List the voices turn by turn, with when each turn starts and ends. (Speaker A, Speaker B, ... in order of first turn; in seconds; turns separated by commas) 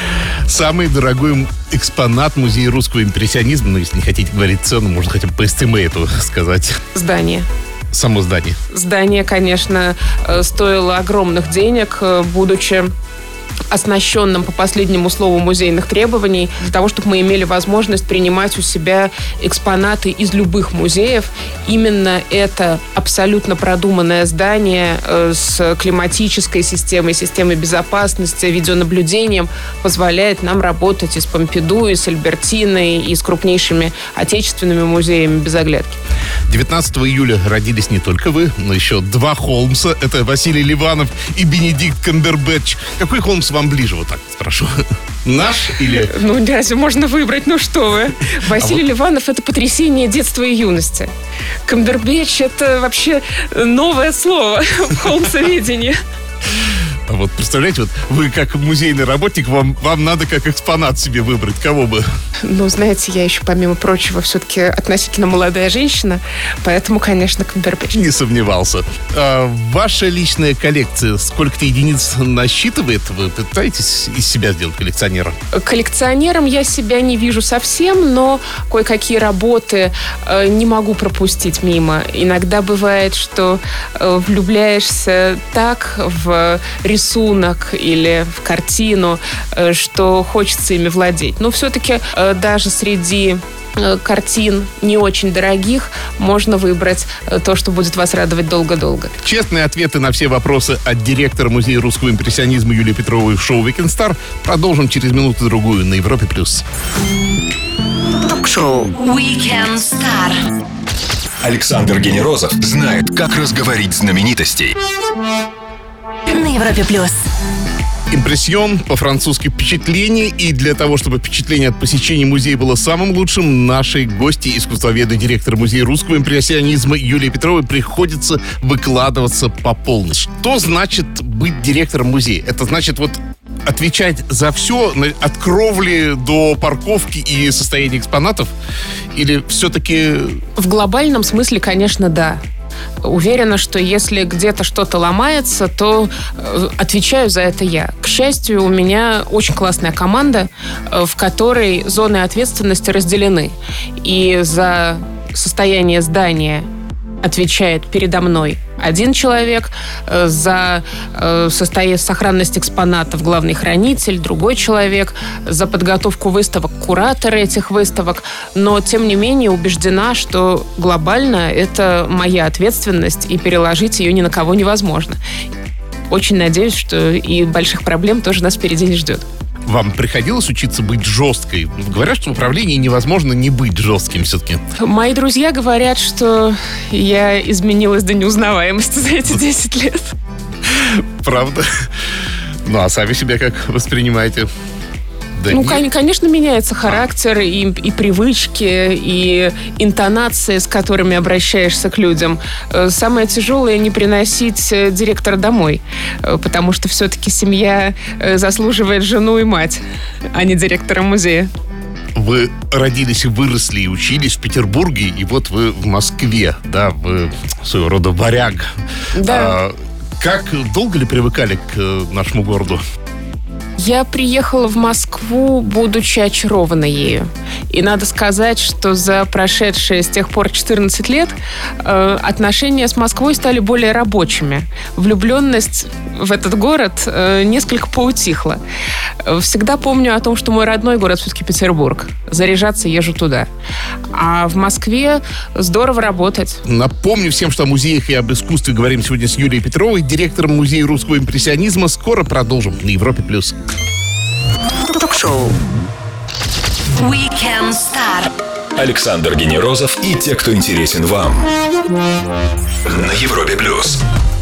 Speaker A: 0.5-6.8, Speaker B: 6.9-7.5, Speaker A: 7.9-8.6, Speaker B: 8.7-12.9, Speaker B: 13.7-36.0, Speaker A: 36.5-46.1, Speaker B: 45.6-51.1, Speaker A: 48.5-48.8, Speaker B: 51.6-56.0, Speaker A: 57.1-62.0, Speaker B: 62.4-68.0, Speaker A: 67.9-75.4, Speaker B: 75.5-99.2, Speaker A: 99.2-106.6, Speaker C: 108.1-110.4, Speaker D: 111.4-114.8, Speaker C: 116.3-117.2, Speaker A: 118.1-138.5, Speaker A: 139.1-140.4, Speaker B: 140.6-142.4, Speaker B: 143.0-156.7, Speaker B: 157.2-175.2, Speaker B: 176.1-179.2, Speaker A: 179.7-184.6, Speaker B: 184.8-190.2, Speaker A: 190.7-191.9, Speaker A: 192.6-194.5, Speaker A: 195.4-195.8, Speaker B: 195.5-209.8, Speaker B: 210.3-211.5, Speaker A: 212.1-218.7, Speaker B: 219.1-219.6, Speaker A: 219.2-222.8, Speaker B: 223.8-238.6, Speaker B: 239.2-243.5, Speaker B: 244.1-246.6, Speaker A: 246.6-253.6, Speaker C: 254.8-255.6, Speaker C: 256.9-258.3, Speaker D: 258.8-261.4, Speaker D: 262.9-264.0